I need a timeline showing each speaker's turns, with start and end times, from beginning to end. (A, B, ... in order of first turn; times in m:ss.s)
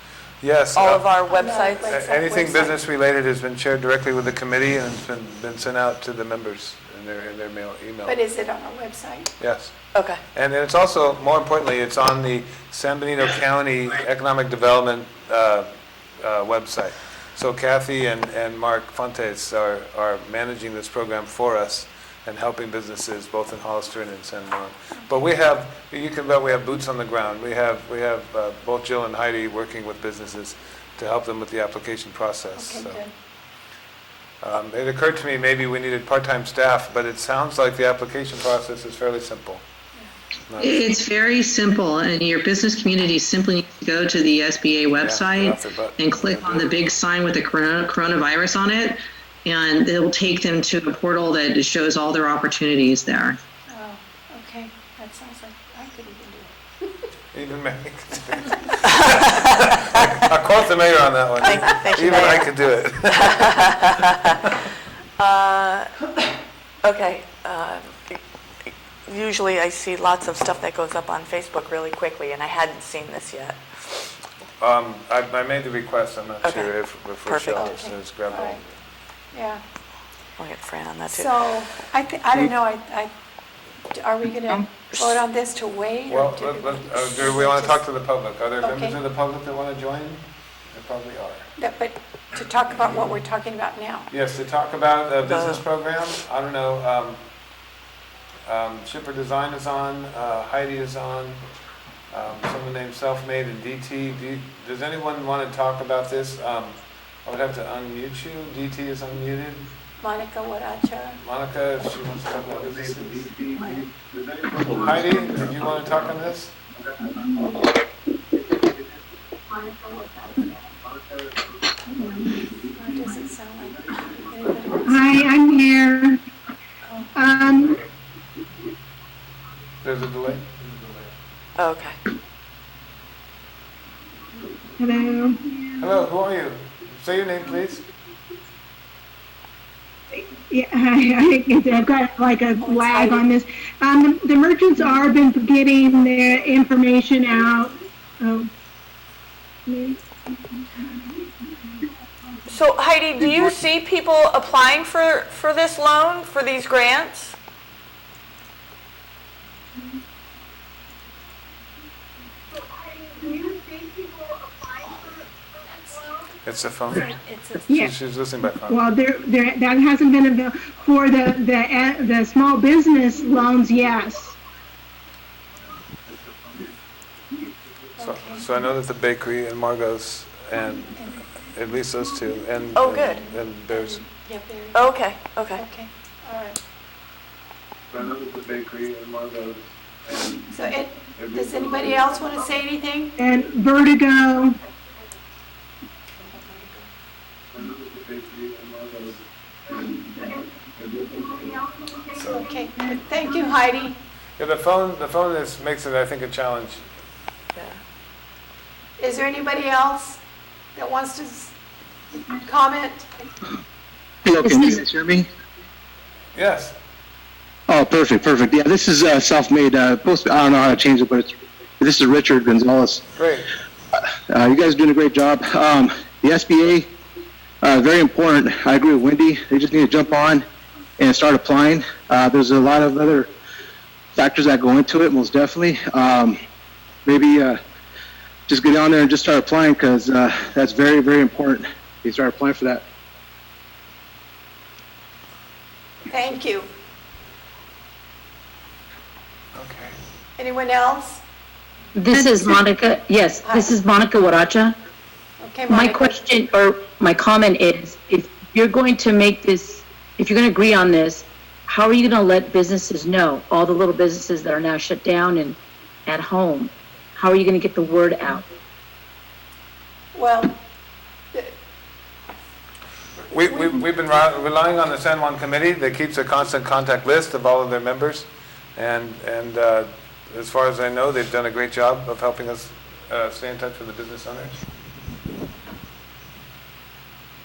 0:00.4-0:01.1 A
0:00.7-0:01.8 B
0:01.3-0:02.7 C
0:01.9-0:08.2 A
0:08.0-0:09.3 C
0:09.4-0:09.8 A
0:09.9-0:10.2 B
0:10.3-0:15.7 A
0:16.2-0:33.0 A
0:32.6-0:33.1 C
0:34.4-0:39.6 A
0:40.5-0:40.9 A
0:40.6-0:53.4 D
0:45.0-0:47.0 A
0:53.7-0:56.9 C
0:57.3-1:03.5 A
1:01.4-1:04.3 B
1:05.2-1:05.9 B
1:06.8-1:14.0 B
1:14.6-1:18.7 A
1:16.4-1:16.7 B
1:17.2-1:17.6 B
1:17.6-1:18.6 C
1:19.3-1:19.6 C
1:20.4-1:21.3 B
1:21.1-1:23.1 C
1:23.9-1:27.8 C
1:24.9-1:25.2 B
1:26.1-1:31.5 A
1:28.6-1:29.0 C
1:31.6-1:34.1 C
1:34.1-1:37.2 A
1:35.3-1:35.6 B
1:38.5-1:41.4 A
1:42.1-1:49.7 A
1:50.0-1:51.2 C
1:51.2-1:53.4 A
1:54.6-1:56.5 A
2:02.7-2:05.1 C
2:04.8-2:06.2 E
2:06.9-2:07.1 C
2:07.1-2:07.8 E
2:09.8-2:11.0 A
2:11.6-2:12.0 B
2:14.8-2:15.4 E
2:15.8-2:17.8 A
2:20.1-2:28.5 E
2:22.6-2:23.3 C
2:29.6-2:30.0 E
2:32.5-2:37.4 B
2:42.9-2:43.9 E
2:46.4-2:47.1 A
2:46.9-2:47.7 C
2:47.7-2:48.8 A
2:48.6-2:54.3 E
2:58.0-2:58.4 C
2:58.0-3:01.0 A
3:00.9-3:01.2 C
3:01.5-3:04.0 A
3:02.7-3:03.2 B
3:03.7-3:05.0 C
3:04.7-3:05.6 B
3:05.5-3:06.6 C
3:08.1-3:10.3 A
3:10.5-3:13.2 C
3:13.2-3:14.6 E
3:16.2-3:16.9 C
3:18.3-3:19.1 A
3:22.1-3:22.4 A
3:22.2-3:24.0 C
3:24.4-3:26.8 A
3:29.0-3:30.2 C
3:30.7-3:31.5 C
3:32.3-3:33.1 C
3:34.2-3:35.3 F
3:34.4-3:34.7 G
3:36.3-3:36.7 A
3:37.7-3:43.0 F
3:43.2-3:43.5 A
3:44.3-3:46.9 F
3:47.6-3:50.4 F
3:51.0-3:53.3 F
3:54.1-3:56.4 F
3:57.0-3:57.6 F
3:58.5-4:02.8 F
4:06.1-4:06.7 C
4:09.5-4:10.0 A
4:10.4-4:11.2 C
4:11.9-4:14.8 G
4:13.4-4:13.7 C
4:15.4-4:16.1 C
4:15.7-4:28.4 G
4:30.1-4:30.6 C
4:33.3-4:44.6 A
4:33.4-4:33.7 C